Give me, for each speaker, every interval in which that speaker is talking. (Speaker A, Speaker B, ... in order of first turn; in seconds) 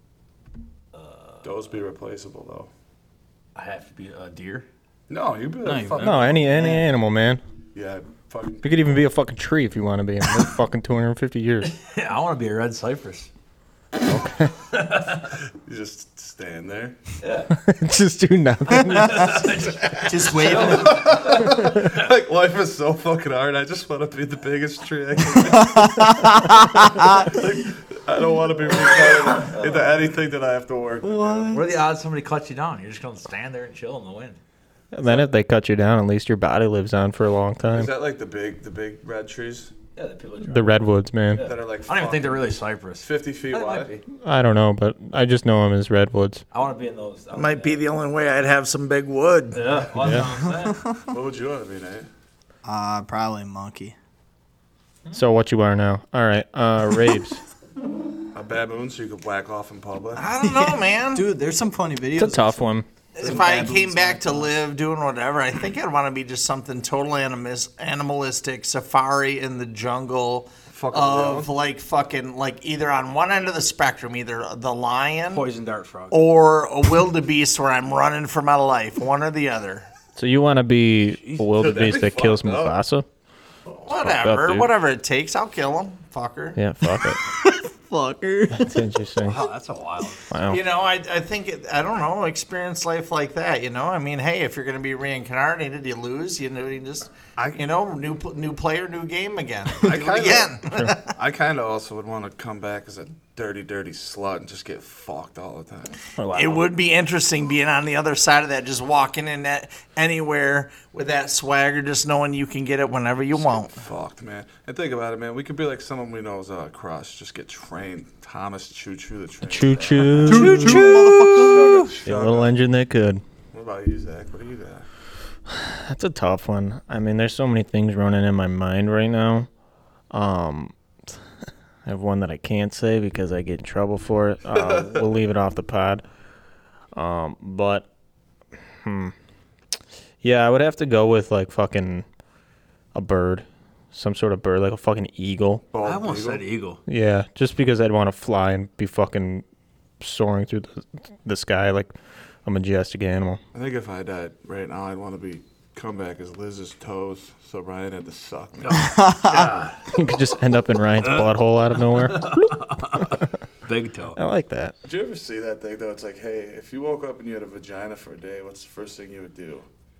Speaker A: 0.9-1.4, 3.5-4.7, 11.6-13.3, 14.7-15.2, 17.2-17.5, 18.7-22.0, 31.5-34.4, 40.0-40.8, 41.3-44.0, 46.5-47.8, 49.5-50.8, 75.3-76.2, 81.2-81.6, 89.2-90.3, 145.8-146.8, 158.6-159.9, 161.0-164.2
Speaker B: 1.4-2.7, 5.1-6.8, 7.7-8.9, 15.3-17.0, 20.5-31.6, 37.7-39.7, 41.4-43.9, 51.1-52.1, 58.3-60.3, 63.2-63.7, 70.7-71.5, 81.5-82.8, 99.8-106.0, 113.3-122.6, 123.5-124.9, 134.6-135.0, 145.7-146.4, 153.5-159.1, 164.8-169.7
Speaker C: 5.6-6.1, 20.0-21.1, 25.6-27.3, 31.0-31.6, 52.6-53.9, 60.5-62.6, 63.2-64.5, 87.2-88.8, 120.2-121.9, 158.8-159.5
Speaker D: 6.0-7.4, 8.6-11.7, 14.0-14.5, 17.5-19.7, 34.9-37.9, 40.5-41.5, 44.2-46.4, 50.0-50.3, 55.1-57.4, 62.1-62.9, 80.2-83.0, 83.9-84.7, 86.5-87.2, 88.5-89.4, 90.3-90.6, 106.2-106.6, 119.4-120.9, 122.0-123.2, 125.5-129.5, 130.1-130.7, 131.8-136.0, 136.9-137.9, 138.8-139.1, 140.2-142.0, 142.9-145.6, 146.9-149.4, 150.0-151.9, 152.4-153.4, 159.9-163.2, 164.1-164.7
Speaker E: 47.3-49.8, 60.2-61.3, 63.1-75.4, 76.1-79.9, 83.8-86.6, 90.5-101.1, 106.3-113.8, 120.3-121.9